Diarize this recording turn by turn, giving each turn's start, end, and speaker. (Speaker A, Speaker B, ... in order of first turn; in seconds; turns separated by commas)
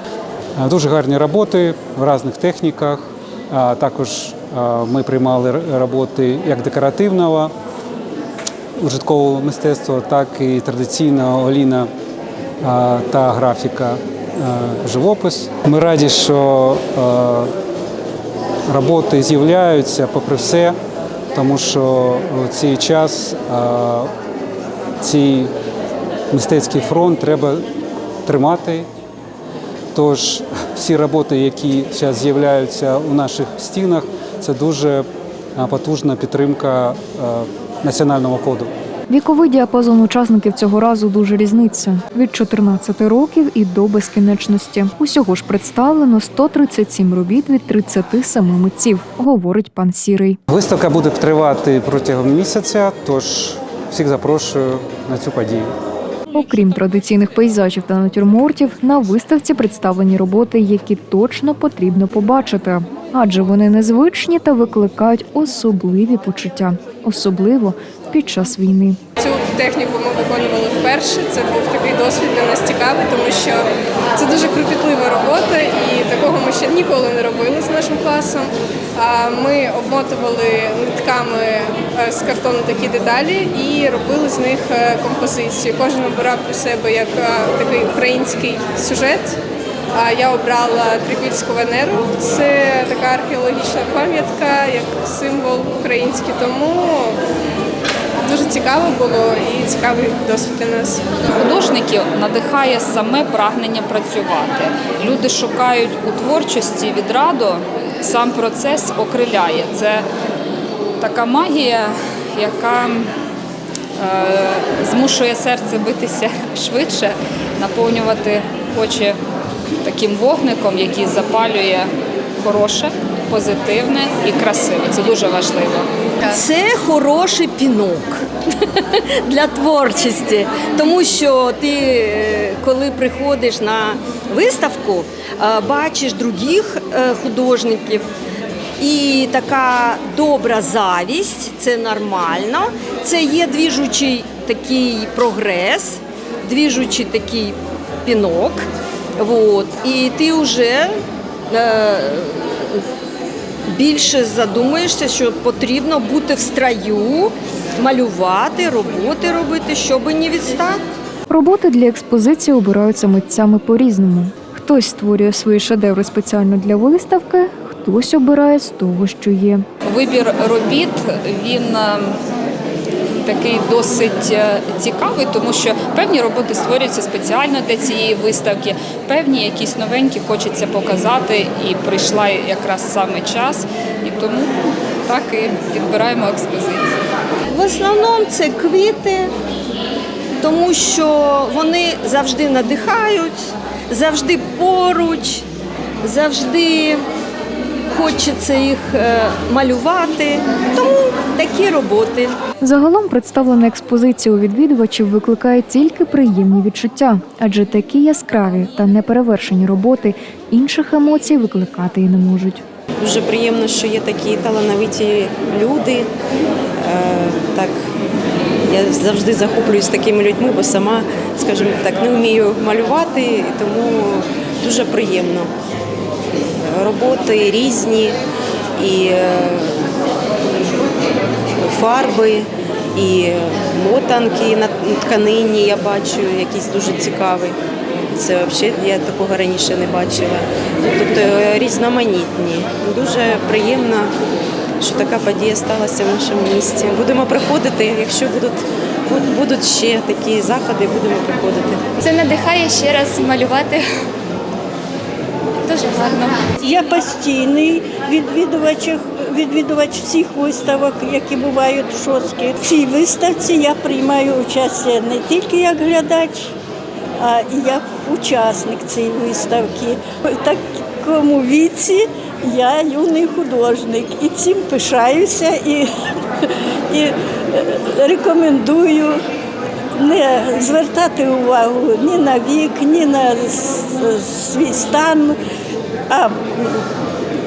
Speaker A: 0.6-7.5, Speaker A: 8.8-11.9, Speaker A: 12.6-17.5, Speaker A: 18.7-20.8, Speaker A: 21.3-24.1, Speaker A: 25.0-25.5, Speaker A: 26.3-27.6, Speaker A: 28.2-28.9, Speaker A: 29.9-35.0, Speaker A: 35.5-38.7, Speaker B: 39.1-50.4, Speaker A: 50.5-55.7, Speaker B: 56.3-69.0, Speaker C: 69.2-73.6, Speaker C: 74.2-89.3, Speaker C: 89.9-97.1, Speaker C: 98.2-101.0, Speaker D: 101.3-110.0, Speaker D: 111.0-113.1, Speaker D: 114.0-119.2, Speaker D: 119.8-125.9, Speaker E: 126.3-138.0, Speaker E: 138.8-148.7, Speaker E: 149.2-150.9, Speaker E: 151.5-152.8, Speaker E: 153.7-160.8, Speaker B: 161.3-169.6, Speaker D: 169.8-172.2, Speaker D: 173.1-184.5, Speaker D: 185.1-186.9, Speaker E: 187.5-189.3, Speaker E: 190.4-195.4, Speaker E: 196.0-197.0, Speaker E: 197.9-202.4, Speaker B: 202.6-212.6, Speaker F: 213.0-216.1, Speaker F: 216.8-217.7, Speaker F: 218.7-225.5, Speaker F: 226.6-228.2, Speaker F: 228.8-229.8, Speaker F: 231.6-237.6, Speaker F: 238.2-244.1, Speaker F: 244.8-251.8, Speaker G: 252.0-253.8, Speaker G: 255.6-256.5, Speaker H: 256.6-266.5, Speaker H: 267.2-275.9, Speaker H: 276.4-279.2, Speaker H: 279.9-285.4, Speaker H: 286.1-286.8